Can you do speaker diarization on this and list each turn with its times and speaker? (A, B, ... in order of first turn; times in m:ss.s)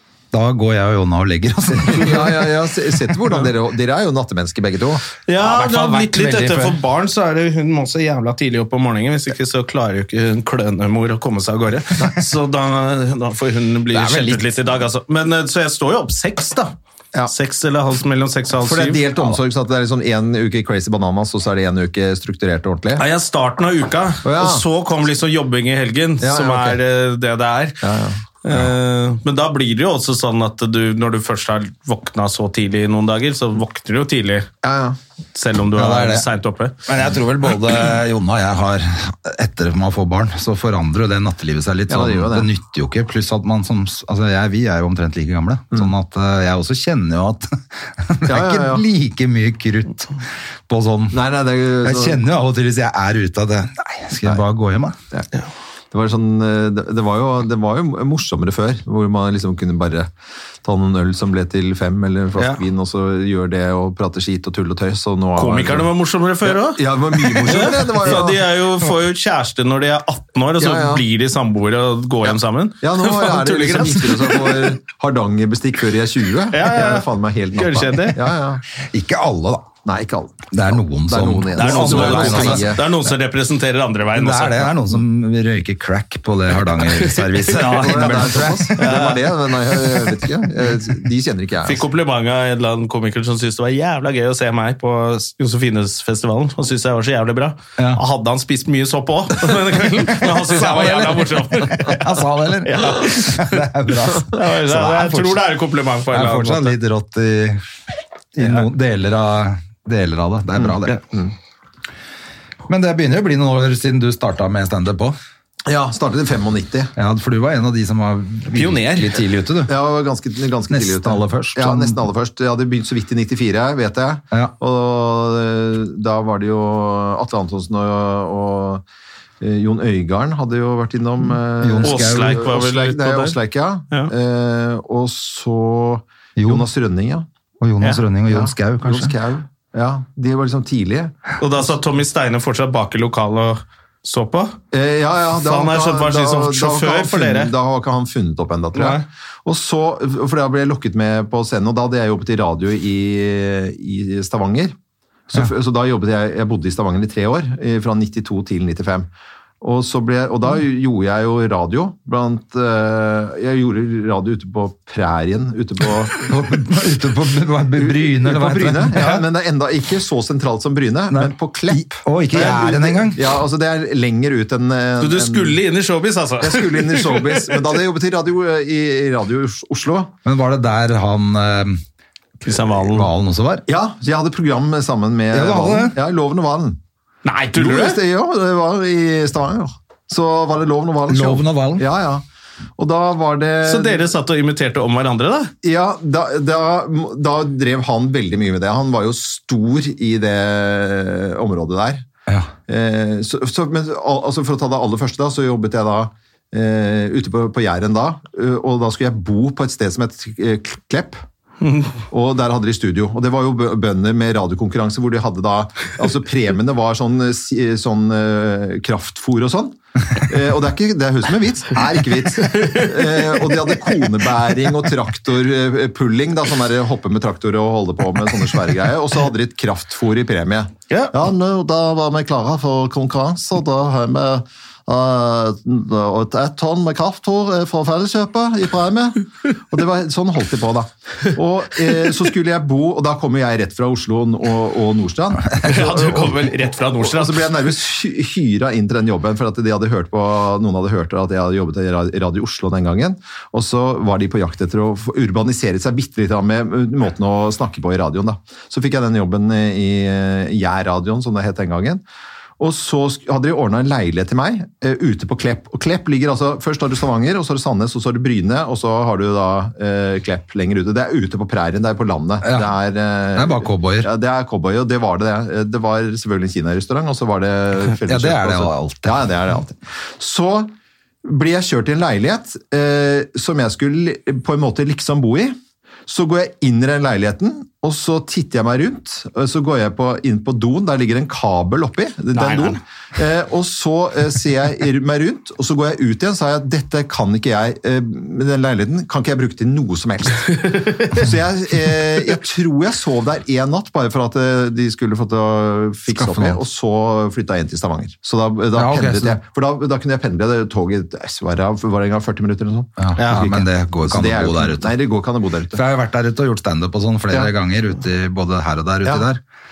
0:00.3-0:02.5 A
0:01.8-0:05.1 B
0:05.3-0:16.7 C
0:05.4-0:06.8 A
0:13.9-0:14.6 A
0:17.3-0:19.1 C
0:18.6-0:23.0 B
0:23.0-0:27.8 C
0:24.2-0:24.6 B
0:26.2-0:26.8 B
0:27.8-0:28.2 B
0:28.4-0:34.5 C
0:34.6-0:35.0 B
0:35.3-0:36.8 C
0:35.8-0:36.3 A
0:36.8-0:51.2 A
0:41.9-0:42.5 B
0:48.2-0:48.8 B
0:51.1-0:52.2 B
0:51.8-0:55.0 A
0:55.9-1:00.1 B
1:00.6-1:05.9 B
1:05.4-1:14.7 C
1:06.4-1:08.4 B
1:10.6-1:11.0 B
1:12.3-1:18.6 B
1:16.5-1:18.2 C
1:18.8-1:19.7 A
1:19.8-1:22.9 B
1:20.5-1:22.8 A
1:21.6-1:24.7 C
1:24.1-1:29.0 A
1:26.8-1:28.2 C
1:27.6-1:31.8 B
1:28.8-1:29.2 C
1:31.6-1:43.6 C
1:40.0-1:45.4 A
1:44.2-1:46.8 C
1:46.1-1:47.6 A
1:48.3-1:51.0 A
1:50.6-1:51.3 B
1:52.7-1:55.2 A
1:55.6-1:56.9 B
1:57.0-1:59.7 A
1:58.5-1:59.2 C
1:59.7-2:08.8 B
2:00.7-2:02.0 A
2:09.4-2:17.2 B
2:11.6-2:12.4 A
2:11.8-2:13.4 C
2:16.4-2:16.6 A
2:17.6-2:19.2 A
2:18.3-2:21.3 B
2:21.4-2:24.6 C
2:24.7-2:34.7 B
2:25.4-2:27.5 C
2:28.7-2:29.0 C
2:35.3-2:39.1 B
2:39.6-2:46.4 B
2:46.2-2:49.2 A
2:47.8-2:55.6 B
2:51.1-2:53.2 A
2:55.0-2:57.7 C
2:56.4-3:00.1 B
3:00.2-3:01.8 A
3:02.4-3:03.1 C
3:02.8-3:03.6 A
3:03.7-3:06.8 B
3:05.3-3:06.0 A
3:07.2-3:08.0 C
3:07.6-3:12.2 B
3:11.1-3:11.8 A
3:12.8-3:14.0 B
3:13.6-3:15.5 C
3:15.6-3:22.1 B
3:22.7-3:31.2 B
3:31.6-3:31.9 C
3:32.1-4:22.0 B
3:42.5-3:43.9 C
4:05.6-4:07.5 C
4:22.6-4:40.7 B
4:32.4-4:32.7 A
4:33.3-4:34.1 A
4:38.0-4:39.3 A
4:41.2-4:45.6 B
4:46.1-5:15.8 B
4:52.3-4:52.8 C
5:00.6-5:01.2 C
5:06.1-5:06.6 A
5:08.7-5:09.4 A
5:13.0-5:14.9 A
5:13.2-5:13.4 C
5:15.7-5:19.4 A